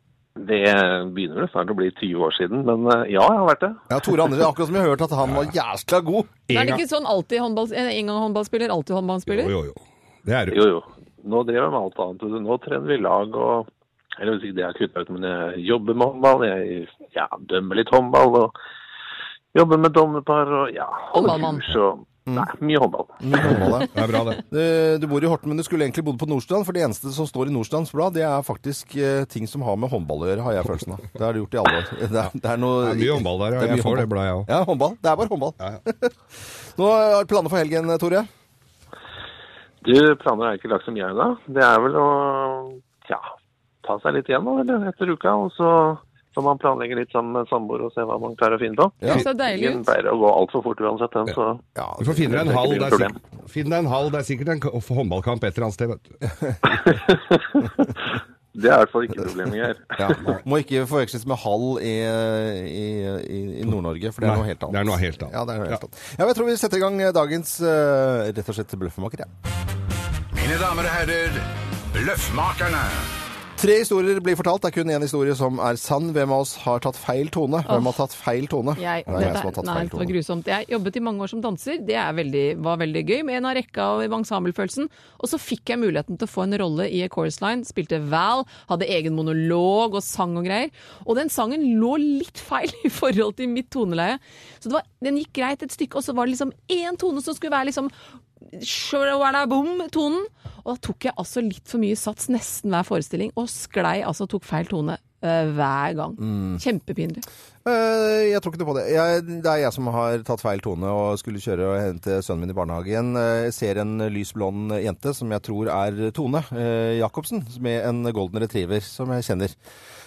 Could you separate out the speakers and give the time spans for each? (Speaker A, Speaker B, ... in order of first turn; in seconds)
Speaker A: 0.4-3.8, 10.5-18.5, 19.5-23.2, 39.8-43.3, 43.8-51.6, 52.2-53.1, 56.8-57.6, 58.5-60.2
Speaker B: 3.9-6.3, 23.2-23.9, 24.4-36.1, 36.7-38.3, 51.8-52.6, 60.0-69.3, 73.6-80.1, 106.2-106.6, 107.6-119.5
Speaker C: 6.5-6.8, 9.3-10.6, 23.4-24.4, 32.8-34.5, 52.0-56.1, 64.2-65.8
Speaker D: 6.5-9.5, 21.1-21.6, 49.1-49.9, 77.7-77.9, 78.8-97.9, 98.5-107.2
Speaker E: 70.3-73.1